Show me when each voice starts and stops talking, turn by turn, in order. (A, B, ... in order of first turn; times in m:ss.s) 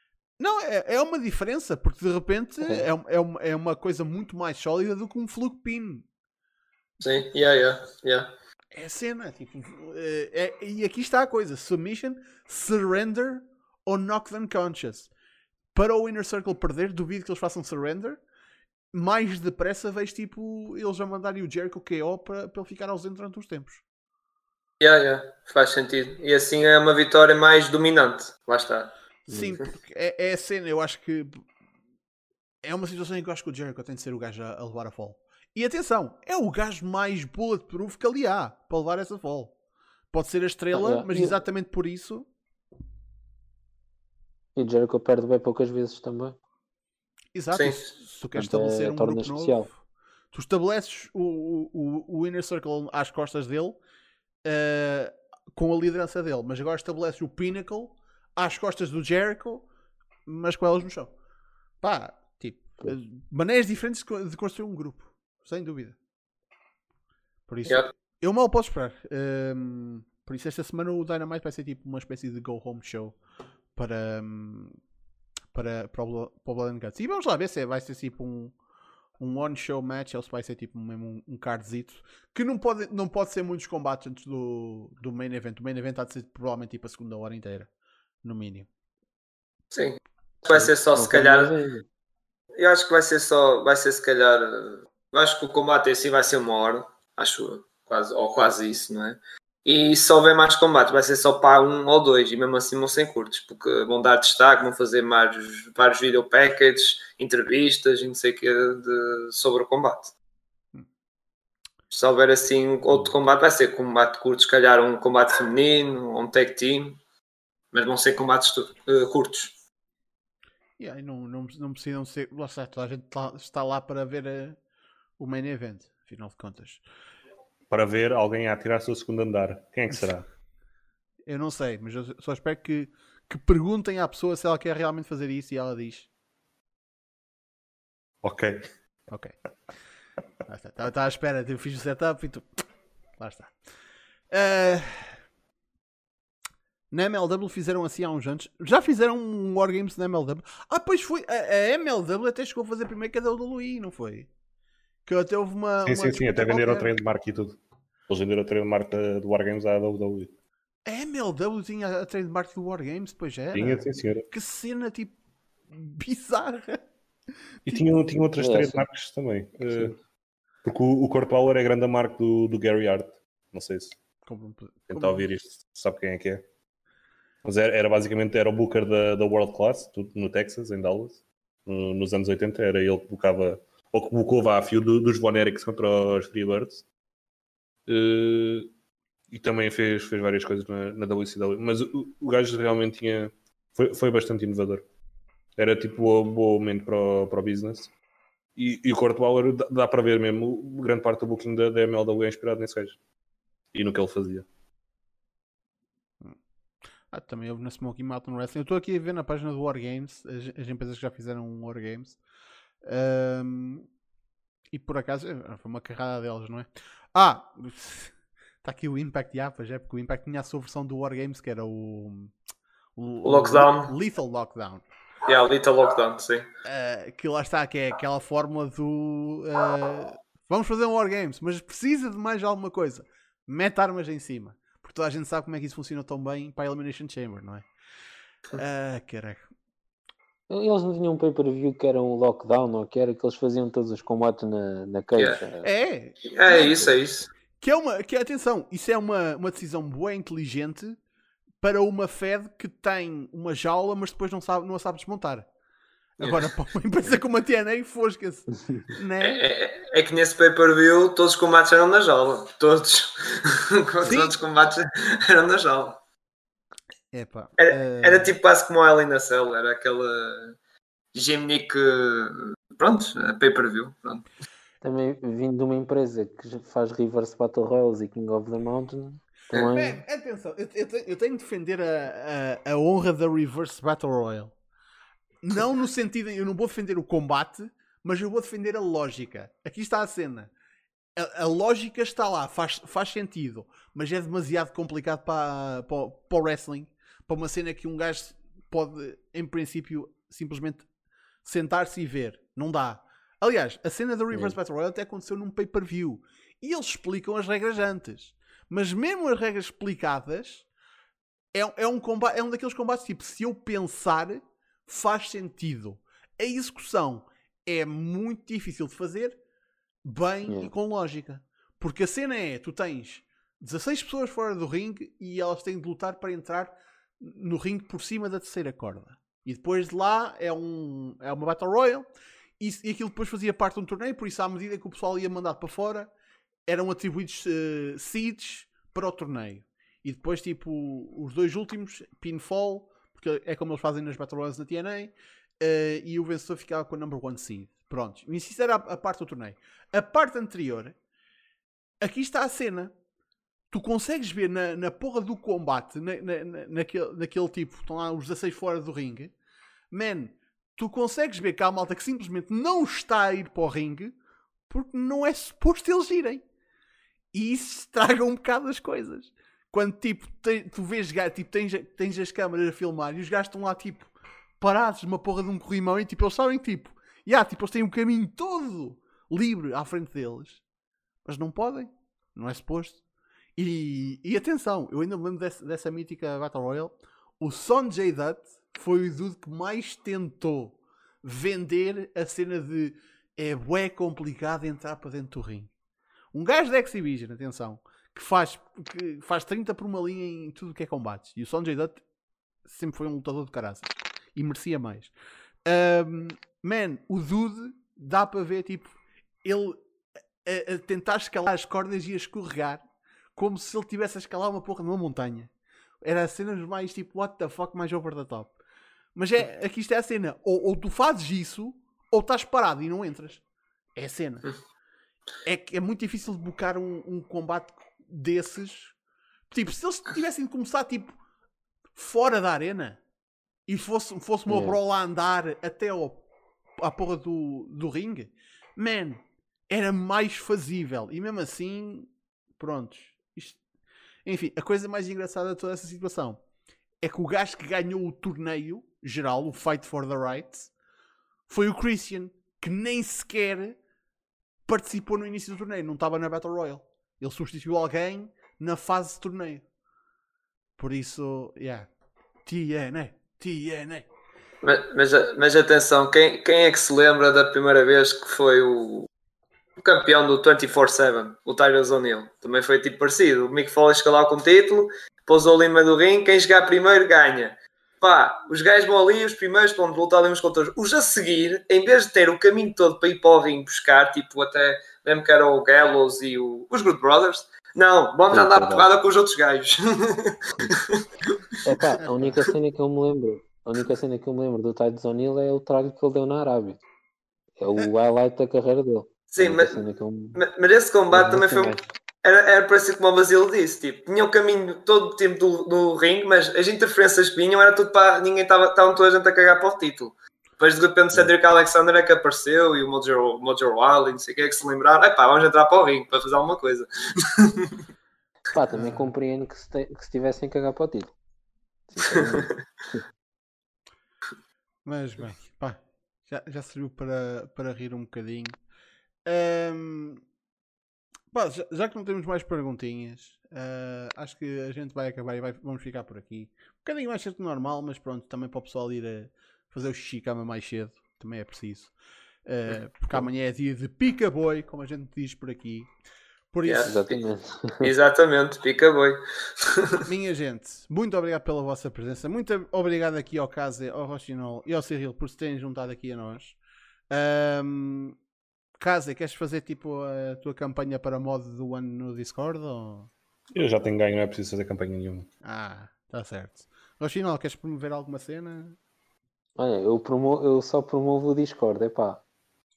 0:00.4-0:06.0 A
0:07.0-0:08.3 B
0:08.7-0:15.1 A
0:15.7-0:18.2 A
0:18.9-0:23.8 A
0:24.8-0:28.9 B
0:29.3-0:31.4 A
0:32.6-0:39.5 A
0:40.1-0:42.3 A
0:40.7-0:41.4 C
0:44.6-0:46.4 C
0:47.3-0:49.7 A
0:47.5-0:47.9 B
0:48.4-0:49.7 C
0:50.3-0:53.8 A
0:54.4-0:59.6 A
1:00.2-1:01.1 A
1:01.8-1:06.0 A
1:07.5-1:13.2 A
1:13.8-1:14.8 A
1:15.5-1:18.5 A
1:19.2-1:27.7 A
1:28.2-1:28.7 A
1:29.7-1:31.5 B
1:30.6-1:31.8 C
1:32.6-1:50.1 B
1:51.9-1:57.0 B
1:57.7-1:59.5 B
2:00.8-2:04.6 A
2:05.2-2:06.8 A
2:07.7-2:10.2 D
2:11.2-2:16.1 A
2:18.2-2:18.7 D
2:19.1-2:19.3 A
2:20.5-2:22.6 A
2:23.2-2:23.5 A
2:24.3-2:25.2 A
2:26.9-2:34.3 A
2:35.0-2:37.0 A
2:35.8-2:37.6 D
2:38.1-2:40.3 D
2:40.8-2:45.1 A
2:43.5-2:44.2 D
2:45.7-2:46.8 A
2:47.6-2:49.9 D
2:48.4-2:48.8 C
2:50.6-2:53.9 D
2:54.2-2:55.2 A
2:54.9-2:56.4 D
2:57.4-3:06.8 D
3:07.9-3:08.7 D
3:09.3-3:14.8 D
3:15.6-3:17.9 D
3:18.6-3:23.0 D
3:23.7-3:24.4 D
3:27.1-3:32.2 A
3:32.8-3:33.9 A
3:34.7-3:42.3 A
3:43.0-3:44.8 A
3:43.2-3:43.9 B
3:45.2-3:46.4 B
3:46.6-3:57.7 A
3:58.5-3:59.5 A
4:00.5-4:05.7 C
4:05.6-4:07.0 A
4:06.2-4:07.3 B
4:07.6-4:11.0 A
4:11.6-4:15.5 A
4:16.2-4:19.4 A
4:16.2-4:16.5 B
4:19.2-4:26.0 B
4:24.0-4:24.4 A
4:27.1-4:28.3 A
4:27.6-4:30.5 B
4:31.1-4:34.2 B
4:34.8-4:40.0 C
4:39.5-4:44.5 A
4:45.4-4:50.5 A
4:51.2-5:00.8 A
5:01.4-5:10.6 A
5:11.5-5:19.4 A
5:20.0-5:32.1 A
5:32.6-5:36.1 A
5:36.7-5:51.0 A
5:52.0-5:52.9 A
5:53.7-5:59.3 A
5:59.9-6:04.2 A
6:04.7-6:06.4 A
6:07.3-6:20.6 A
6:21.2-6:23.0 A
6:23.6-6:35.7 A
6:36.3-6:42.0 A
6:42.6-6:45.1 A
6:45.6-6:49.8 A
6:50.4-6:52.8 A
6:53.4-6:55.5 A
6:56.0-6:58.5 A
6:59.1-7:03.4 A
7:04.0-7:04.5 A
7:05.4-7:08.9 A
7:09.5-7:11.1 A
7:11.9-7:13.0 A
7:13.7-7:16.2 A
7:14.5-7:14.8 C
7:16.8-7:23.6 A
7:24.2-7:26.4 A
7:27.0-7:30.7 A
7:31.5-7:33.8 A
7:34.7-7:39.6 A
7:40.8-7:41.9 A
7:42.4-7:44.1 A
7:44.6-7:49.1 B
7:49.8-8:11.3 B
8:08.3-8:08.9 C
8:11.6-8:16.8 C
8:12.0-8:12.4 A
8:17.6-8:20.4 C
8:19.3-8:37.8 B
8:21.1-8:21.8 C
8:38.5-8:41.1 C
8:38.7-8:39.1 A
8:41.9-8:43.0 C
8:42.1-8:42.5 B
8:44.8-8:48.6 A
8:49.2-8:50.2 A
8:51.3-9:01.9 A
9:02.4-9:05.9 A
9:06.5-9:07.0 A
9:06.6-9:07.2 B
9:06.8-9:07.9 C
9:07.8-9:10.0 B
9:10.0-9:16.6 A
9:17.1-9:18.2 A
9:18.8-9:23.1 A
9:23.5-9:25.3 D
9:25.4-9:28.8 A
9:29.6-9:32.2 C